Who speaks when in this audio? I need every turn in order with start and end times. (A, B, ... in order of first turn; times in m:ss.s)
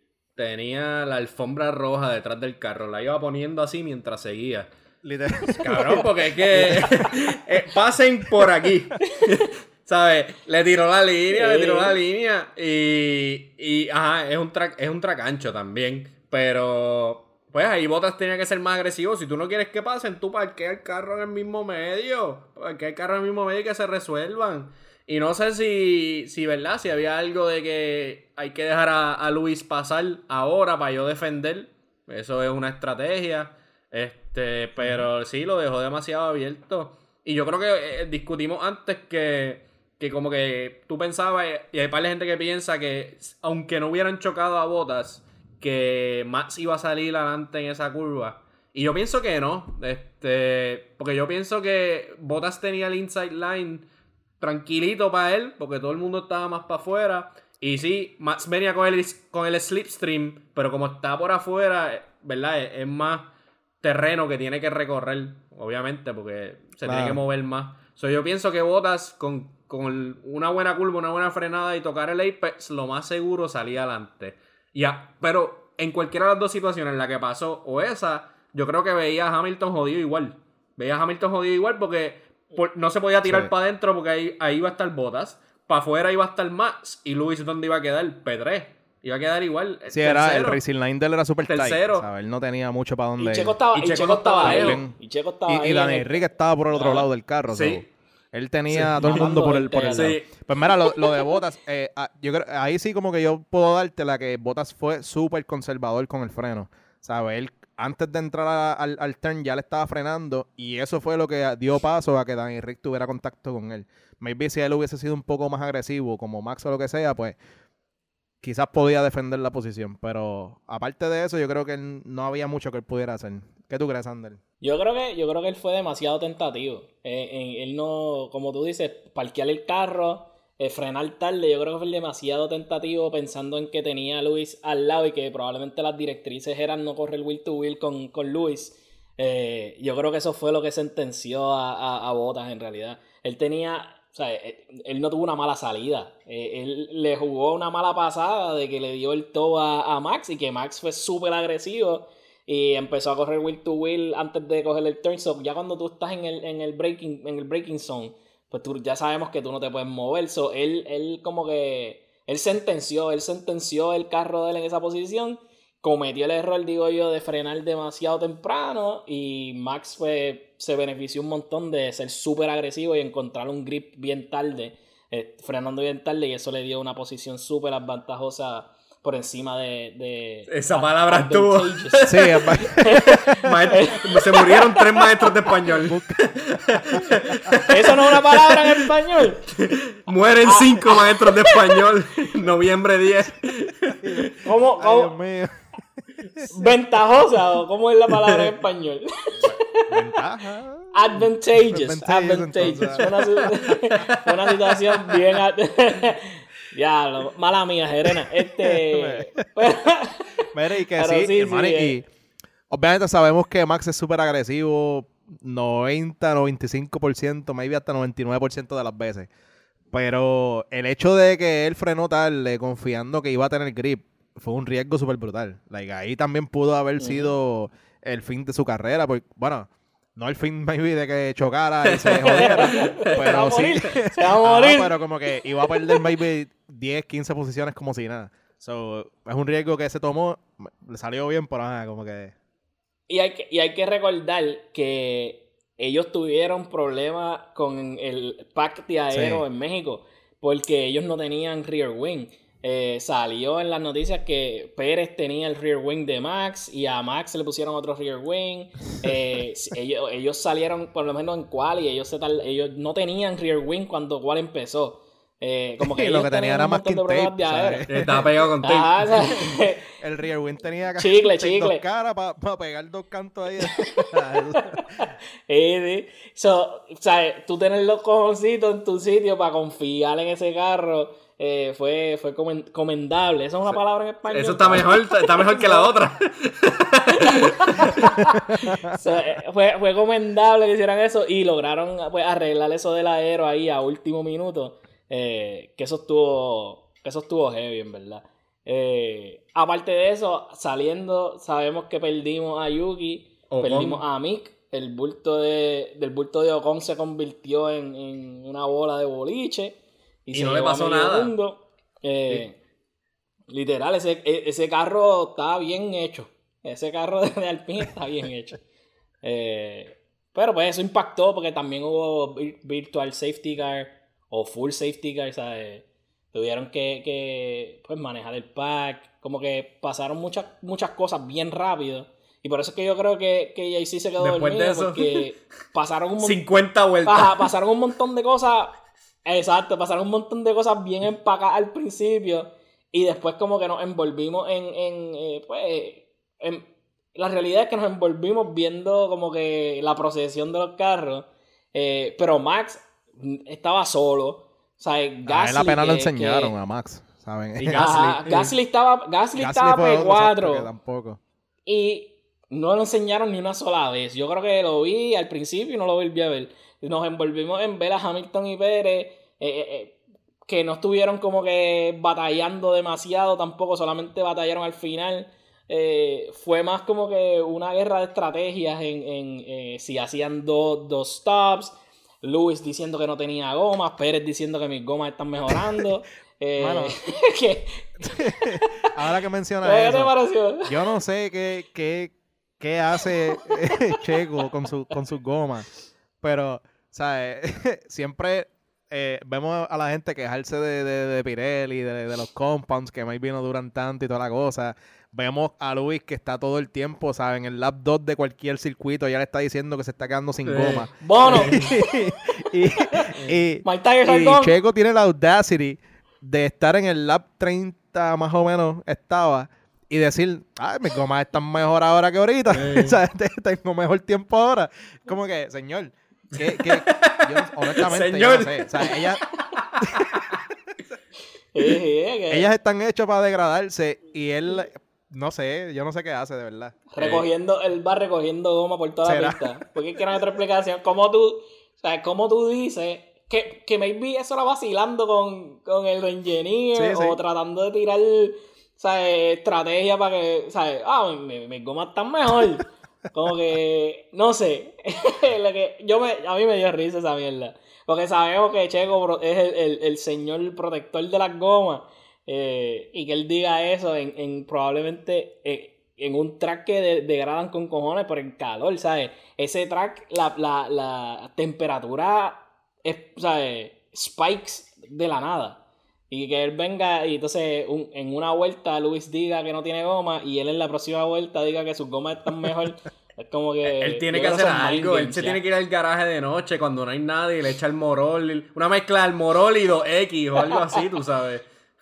0:00.4-0:04.7 A
0:05.0-0:07.2 B
0:05.6-0:53.9 A
0:11.3-0:12.0 C
0:54.4-1:30.6 A
1:06.8-1:07.2 B
1:23.2-1:23.5 B
1:29.9-1:33.6 B
1:31.5-1:32.1 A
1:33.2-1:36.2 C
1:33.7-1:34.8 A
1:34.4-1:35.0 B
1:35.5-1:57.4 B
1:36.8-1:37.9 A
1:38.7-1:39.4 A
1:39.0-1:40.2 C
1:39.9-1:40.3 A
1:58.4-2:04.4 B
2:04.6-3:05.5 C
3:00.5-3:08.9 A
3:02.1-3:03.7 B
3:05.7-3:07.5 B
3:07.7-3:09.5 C
3:09.5-3:14.3 A
3:10.4-3:11.8 C
3:14.0-3:15.5 B
3:14.4-3:15.2 C
3:16.4-3:16.7 B
3:16.5-3:20.2 C
3:19.4-3:23.4 B
3:20.9-3:32.0 C
3:24.1-3:24.6 A
3:28.6-3:29.4 B
3:30.5-3:32.1 B
3:32.7-3:39.3 B
3:39.9-4:02.4 B
3:47.0-3:47.3 C
3:52.0-3:53.2 A
3:52.1-3:55.0 C
4:03.1-4:28.0 C
4:09.1-4:09.4 B
4:25.8-4:28.3 B
4:27.9-4:29.2 A
4:28.6-4:29.9 C
4:29.2-4:35.0 B
4:31.0-4:31.8 C
4:33.6-4:46.0 C
4:44.3-4:48.2 A
4:47.2-5:12.6 C
4:48.4-4:49.0 B
5:03.5-5:04.0 A
5:10.3-5:11.4 A
5:13.5-5:18.6 C
5:19.2-5:36.4 C
5:34.2-5:35.3 A
5:36.2-5:37.5 A
5:37.0-5:56.6 C
5:55.3-5:58.0 B
5:57.6-5:58.5 A
5:57.7-6:00.7 C
5:59.4-6:01.2 B
6:01.7-6:29.0 C
6:26.6-6:27.0 B
6:28.0-6:30.1 B
6:29.6-6:30.8 C
6:30.7-6:35.7 B
6:36.2-7:09.2 B
6:50.4-6:51.6 A
6:51.0-6:52.1 C
6:52.7-6:54.6 C
7:02.5-7:03.0 A
7:06.3-7:10.4 A
7:09.8-7:10.1 B
7:11.5-7:12.5 C
7:12.3-7:16.8 B
7:16.9-8:05.4 C
7:17.0-7:17.3 A
7:19.0-7:19.6 B
7:26.8-7:27.2 B
8:03.6-8:11.4 A